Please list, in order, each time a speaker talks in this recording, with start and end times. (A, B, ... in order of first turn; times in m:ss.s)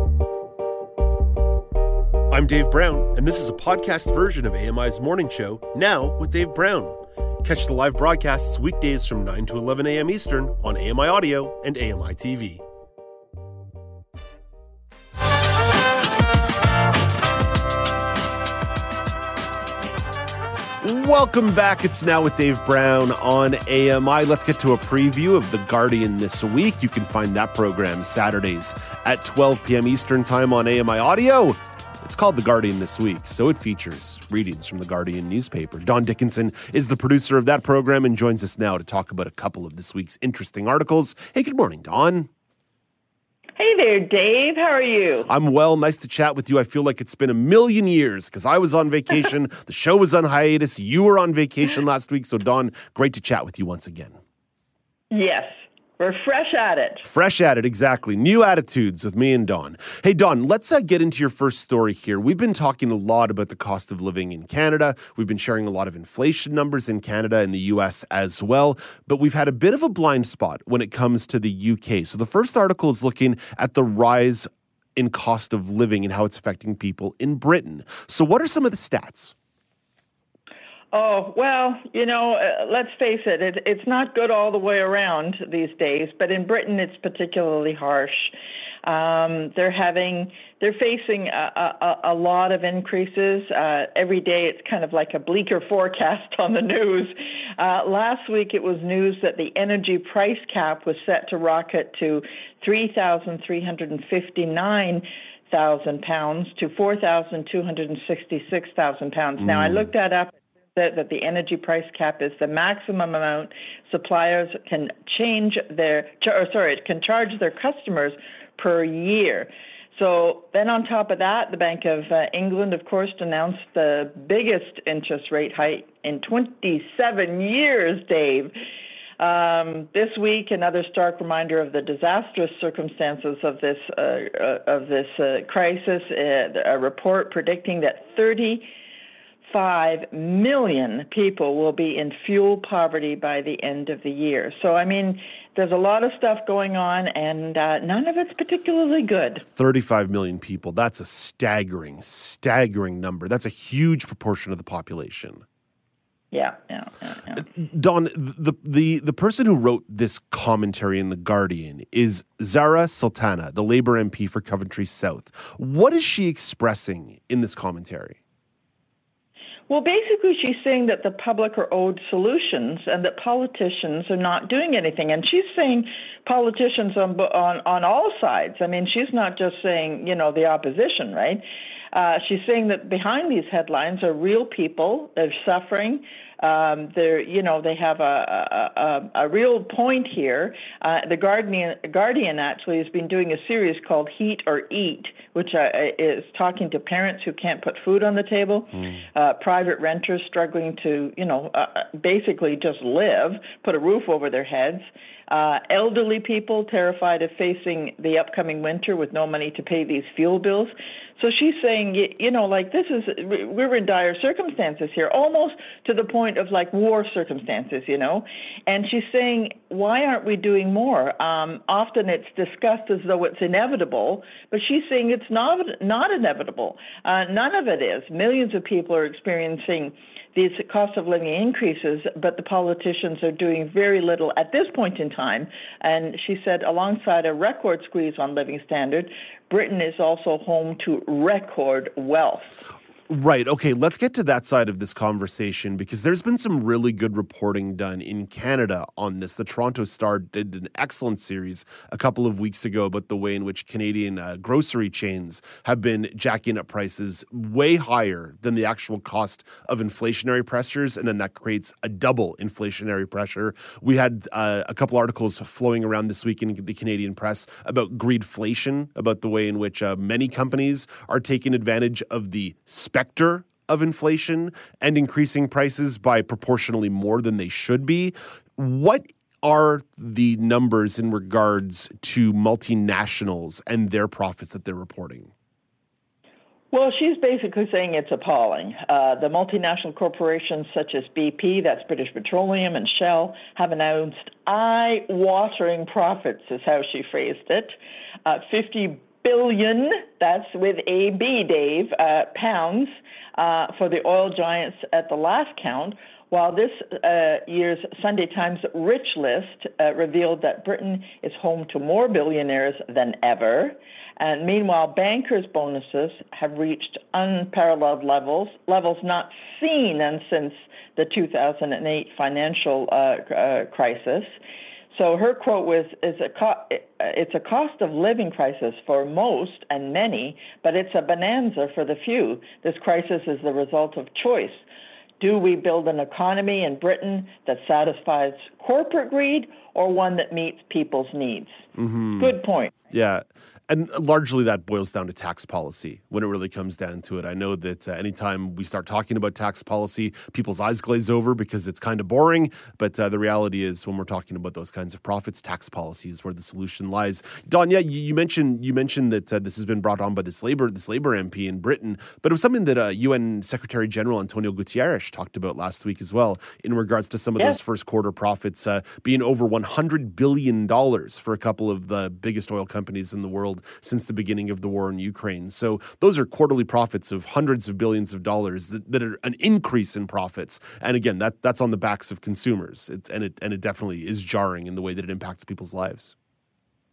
0:02.3-0:12.6 A
0:20.8-0:42.3 A
0:43.6-0:45.3 B
0:45.3-0:54.2 A
0:55.1-0:57.0 B
0:57.0-1:19.3 A
1:20.9-2:08.5 B
1:49.4-1:49.9 A
2:09.2-2:18.6 B
2:19.5-2:29.4 B
2:29.5-2:35.4 A
2:36.3-2:37.5 B
2:37.5-2:48.2 A
2:49.7-4:02.6 B
4:03.1-4:45.3 A
4:46.7-5:24.4 B
5:24.9-5:34.6 B
5:35.2-5:41.6 B
5:41.7-5:42.4 A
5:42.2-5:42.8 B
5:42.9-6:26.1 A